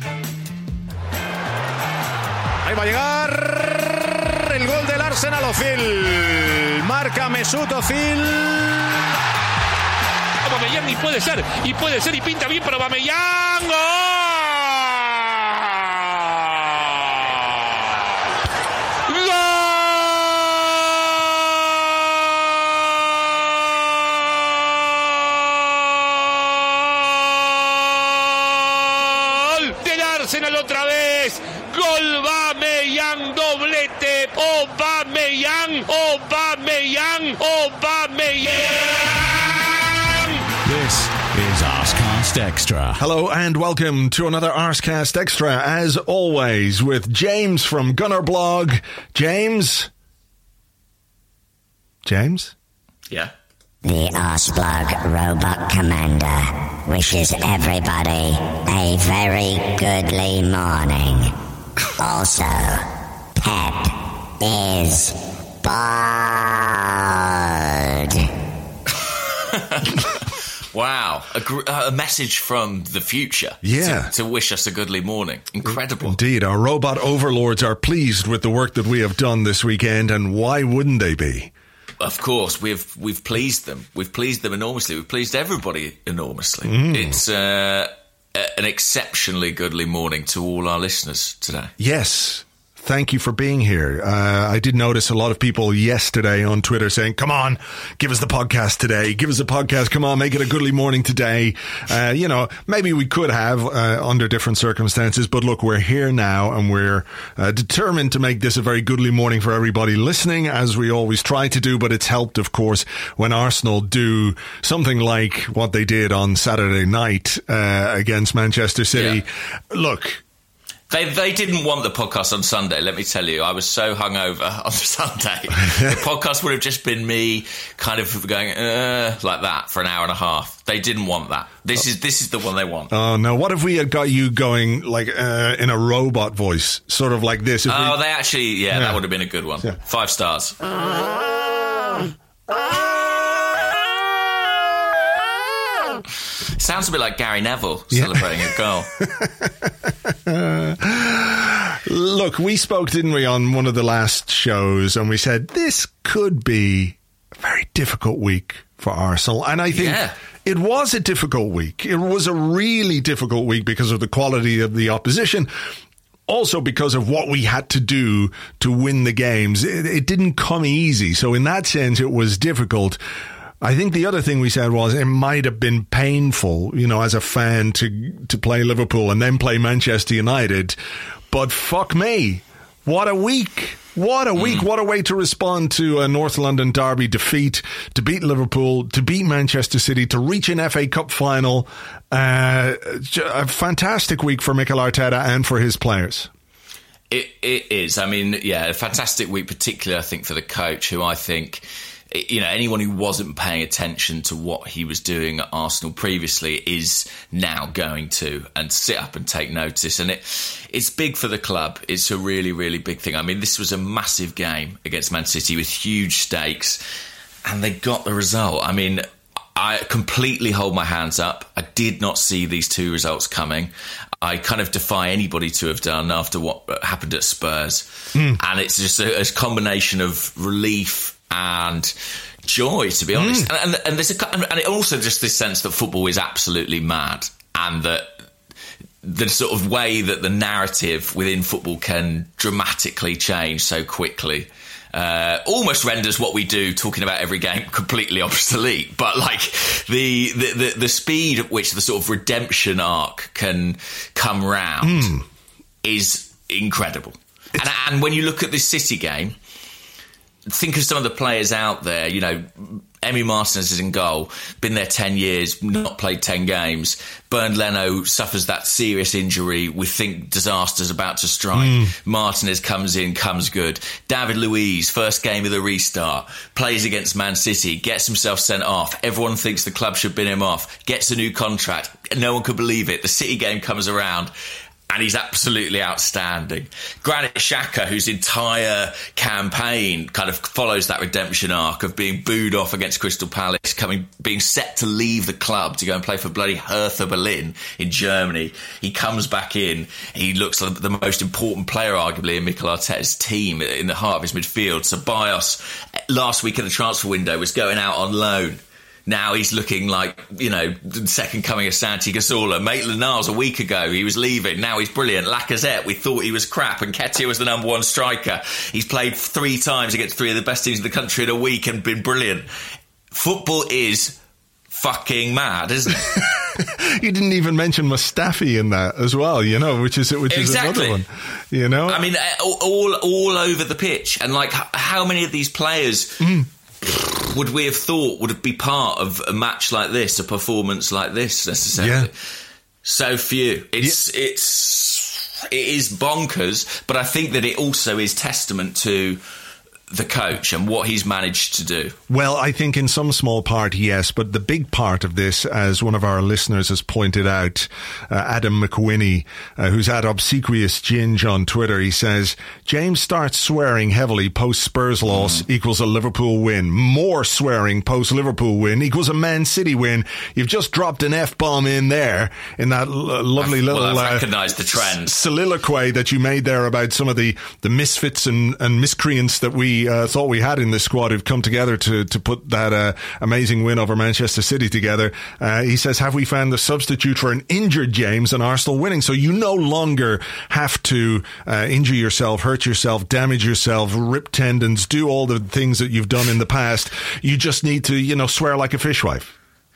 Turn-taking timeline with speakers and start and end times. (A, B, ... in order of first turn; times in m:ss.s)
0:02.6-0:08.9 A
0:10.4-0:15.8 B
0:19.0-0:22.0 B
0:24.9-0:39.5 B
0:40.6-0:43.0 C
0:43.0-0:49.9 A
0:52.0-0:52.5 A
0:53.8-1:01.3 D
1:02.0-1:08.3 D
1:09.5-1:16.2 E
1:13.6-1:14.1 A
1:16.0-1:21.5 A
1:22.0-1:31.7 E
1:26.6-1:27.2 A
1:31.8-2:00.2 A
1:58.9-1:59.2 E
2:00.9-2:12.9 E
2:05.6-2:06.0 A
2:12.9-2:18.0 A
2:17.7-2:20.6 E
2:18.7-2:19.0 A
2:26.5-2:28.9 E
2:27.9-2:28.3 A
2:29.0-2:45.5 A
2:39.7-2:40.1 E
2:46.3-2:53.0 A
2:53.6-3:00.8 A
3:01.3-3:16.3 A
3:04.4-3:04.6 E
3:17.1-3:36.8 E
3:37.4-3:58.2 E
3:48.1-3:48.4 A
3:53.1-3:53.5 A
3:59.0-4:15.2 E
4:14.8-4:15.2 A
4:15.8-4:19.4 E
4:20.5-4:44.3 E
4:31.5-4:31.9 A
4:44.9-5:22.5 E
5:23.1-5:24.2 E
5:24.7-5:26.2 E
5:26.5-5:32.0 A
5:30.3-5:31.0 E
5:31.8-5:42.3 E
5:36.2-5:36.5 A
5:41.7-5:42.1 A
5:42.8-5:49.2 E
5:49.9-5:52.0 E
5:52.1-6:39.3 A
6:05.1-6:05.4 E
6:13.4-6:15.1 E